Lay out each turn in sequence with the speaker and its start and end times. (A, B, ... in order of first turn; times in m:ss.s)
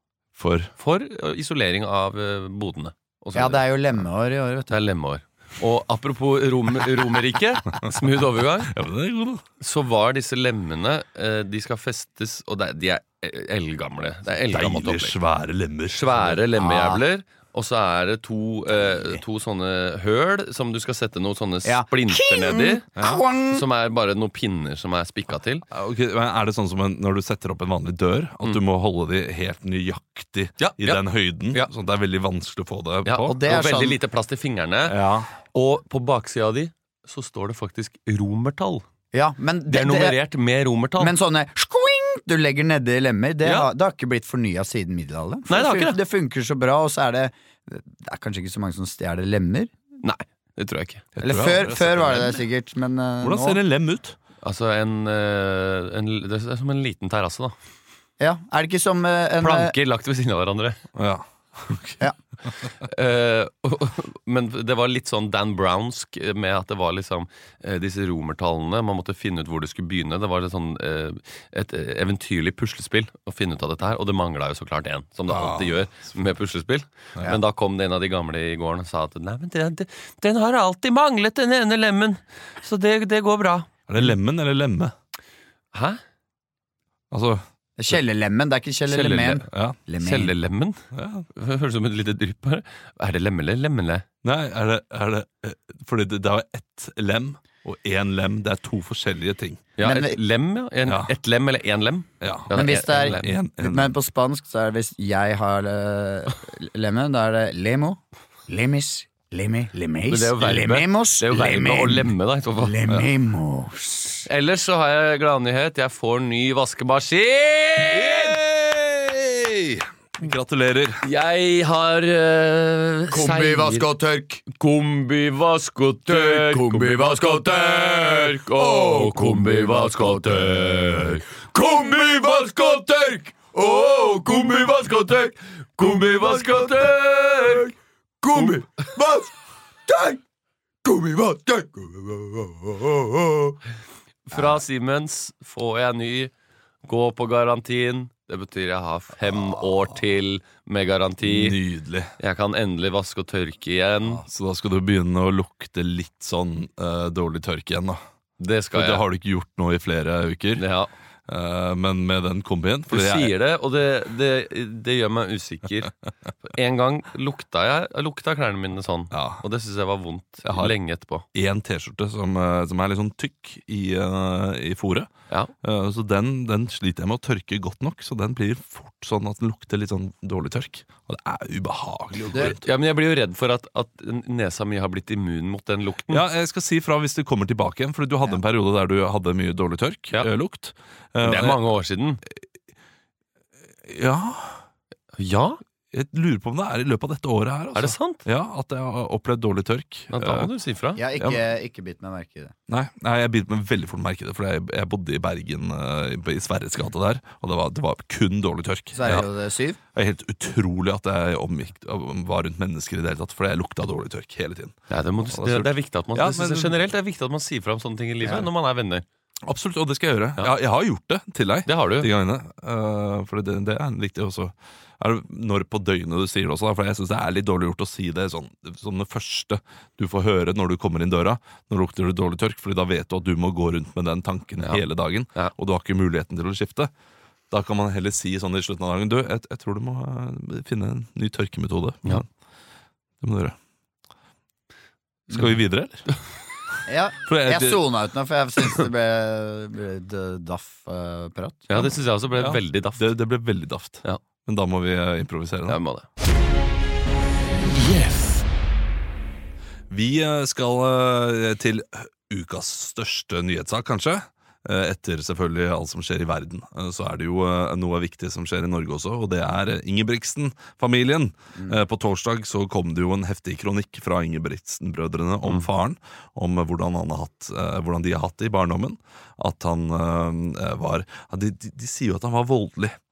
0:00.4-0:00.7 A
0:00.8-0:03.7 B
0:03.4-0:04.7 C
0:04.7-0:08.7 B
0:07.7-0:08.0 A
0:08.7-0:09.4 A
0:09.6-0:15.2 B
0:14.5-0:16.4 A
0:15.9-0:22.9 B
0:16.6-0:17.0 C
0:18.8-0:19.2 C
0:21.6-0:23.6 C
0:23.0-0:23.2 A
0:23.5-0:25.6 B
0:25.7-0:33.3 A
0:30.6-0:31.7 B
0:33.1-0:35.0 B
0:33.2-0:34.0 C
0:34.9-0:35.3 A
0:35.5-0:38.8 B
0:39.1-0:40.2 C
0:39.7-0:41.1 B
0:41.0-0:49.7 C
0:45.5-0:46.0 B
0:50.0-0:51.0 B
0:51.2-0:52.4 A
0:51.2-0:53.6 C
0:53.2-0:54.2 A
0:54.4-0:57.5 B
0:58.2-0:59.7 C
0:59.4-1:00.8 B
1:01.0-1:02.0 A
1:02.8-1:23.7 B
1:15.3-1:15.8 A
1:23.9-1:24.9 A
1:25.7-1:26.0 B
1:27.1-1:27.4 A
1:27.8-1:30.3 C
1:28.9-1:29.5 B
1:29.5-1:29.8 A
1:30.0-1:30.8 B
1:30.9-1:31.3 A
1:31.3-1:34.0 B
1:34.2-1:39.7 A
1:39.8-1:43.3 B
1:39.8-1:40.2 C
1:40.9-1:41.1 A
1:42.2-1:44.0 A
1:42.5-1:54.3 C
1:50.1-1:52.8 B
1:54.3-1:58.4 B
1:57.9-2:01.0 A
2:01.0-2:03.9 B
2:03.1-2:04.5 C
2:04.5-2:17.7 B
2:06.1-2:15.3 C
2:15.8-2:16.9 C
2:18.2-2:19.3 C
2:18.3-2:18.7 B
2:19.9-2:20.2 C
2:20.8-2:23.6 C
2:24.3-2:26.3 B
2:26.8-2:31.6 B
2:31.2-2:32.1 A
2:32.2-2:34.2 B
2:34.2-2:38.0 A
2:38.4-2:39.0 B
2:38.7-2:40.6 A
2:40.6-2:40.9 B
2:41.3-2:43.3 A
2:42.9-2:45.9 B
2:46.4-2:51.2 B
2:49.1-2:49.4 A
2:50.4-2:50.8 A
2:51.3-2:55.1 A
2:55.6-3:02.6 A
3:02.3-3:06.2 B
3:06.1-3:11.6 A
3:11.2-3:12.2 B
3:13.9-3:14.6 A
3:15.2-3:15.6 B
3:15.9-3:20.5 A
3:17.8-3:18.2 B
3:20.1-3:21.0 B
3:21.0-3:22.6 C
3:22.7-3:29.3 A
3:28.9-3:29.8 C
3:30.0-3:36.8 A
3:34.9-3:39.0 B
3:39.5-3:56.9 A
3:41.7-3:42.1 B
3:57.5-4:02.3 A
4:03.2-4:03.6 A
4:05.3-4:06.1 A
4:06.9-4:11.8 C
4:07.3-4:07.8 A
4:11.7-4:13.1 B
4:12.4-4:15.8 A
4:15.7-4:16.1 B
4:17.7-4:18.4 B
4:19.9-4:43.0 A